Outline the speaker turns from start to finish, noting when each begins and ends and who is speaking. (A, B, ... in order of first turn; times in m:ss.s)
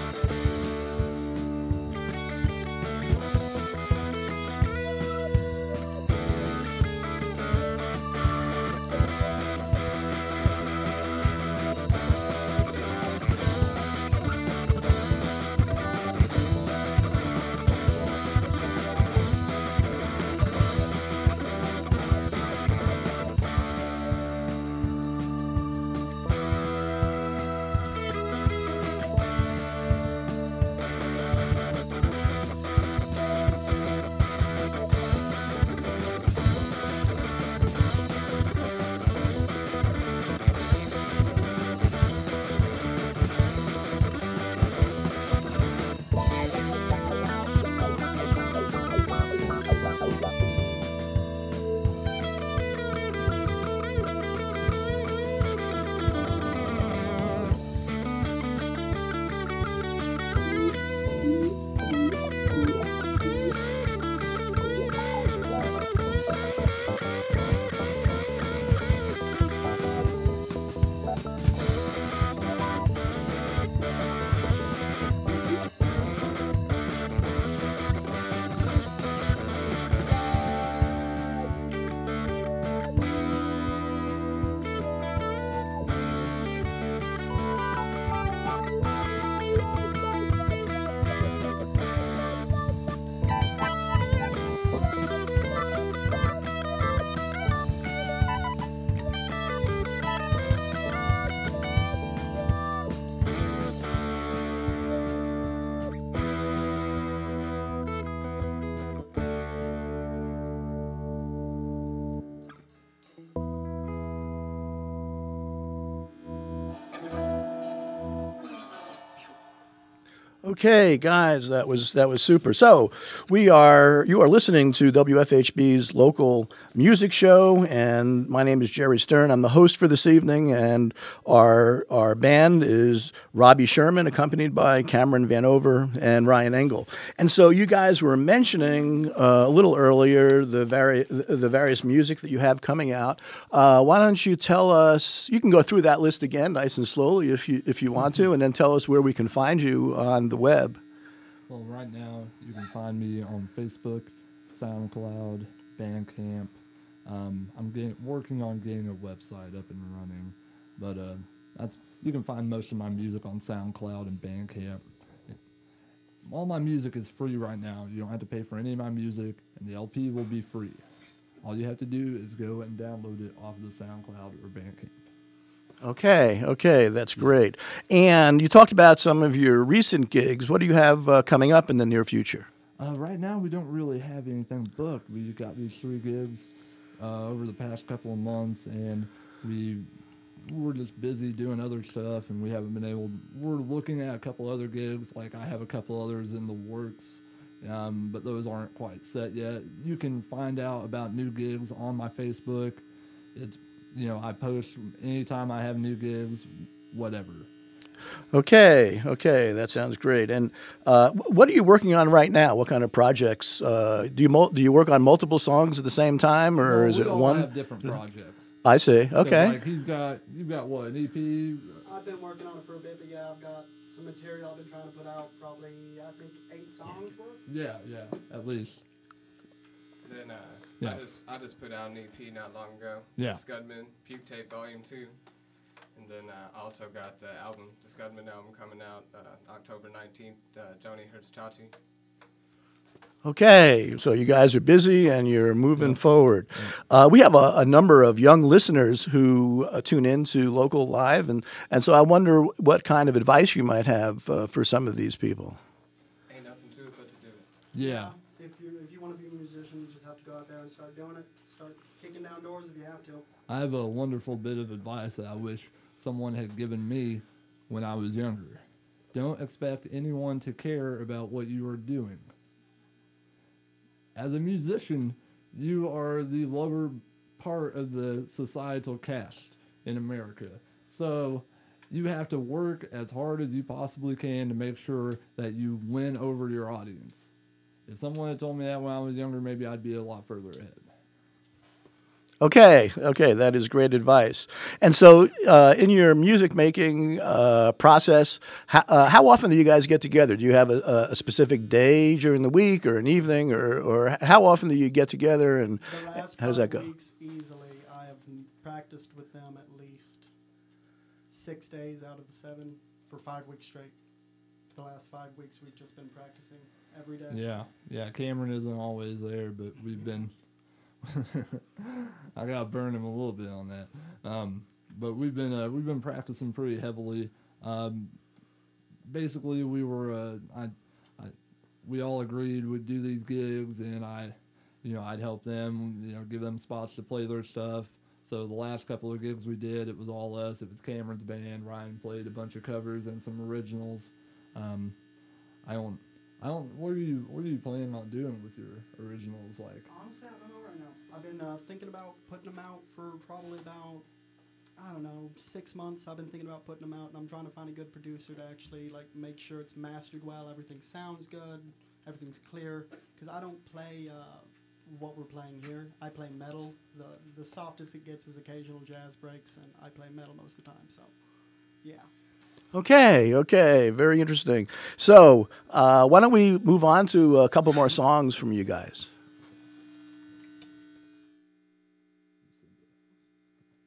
2:00.4-2:30.8 A
2:31.5-2:45.4 B
2:46.2-2:50.8 B
2:51.4-2:55.0 B
2:55.8-3:02.5 A
3:02.8-3:09.9 B
3:10.4-3:22.8 B
3:23.3-3:27.5 B
3:28.3-3:37.5 A
3:36.6-3:38.5 B
3:38.6-3:39.6 A
3:39.2-3:41.8 B
3:41.8-3:47.4 C
3:47.5-3:48.8 B
3:50.0-3:55.2 D
3:53.2-3:53.4 B
3:55.9-4:01.7 D
4:03.2-4:15.6 A
4:16.3-4:17.5 D
4:17.7-4:18.1 B
4:17.8-4:23.2 C
4:23.5-4:32.3 B
4:34.2-4:47.3 B
4:47.8-4:50.9 B
4:52.4-5:06.9 A
5:05.8-5:10.3 C
5:11.3-5:14.0 C
5:14.7-5:17.5 C
5:17.3-5:20.3 B
5:21.0-5:28.2 B
5:29.1-5:44.9 B
5:45.6-5:49.9 B
5:49.9-5:54.0 C
5:54.8-6:11.1 C
6:11.8-6:12.1 C
6:12.7-6:19.1 A
6:22.5-6:22.8 B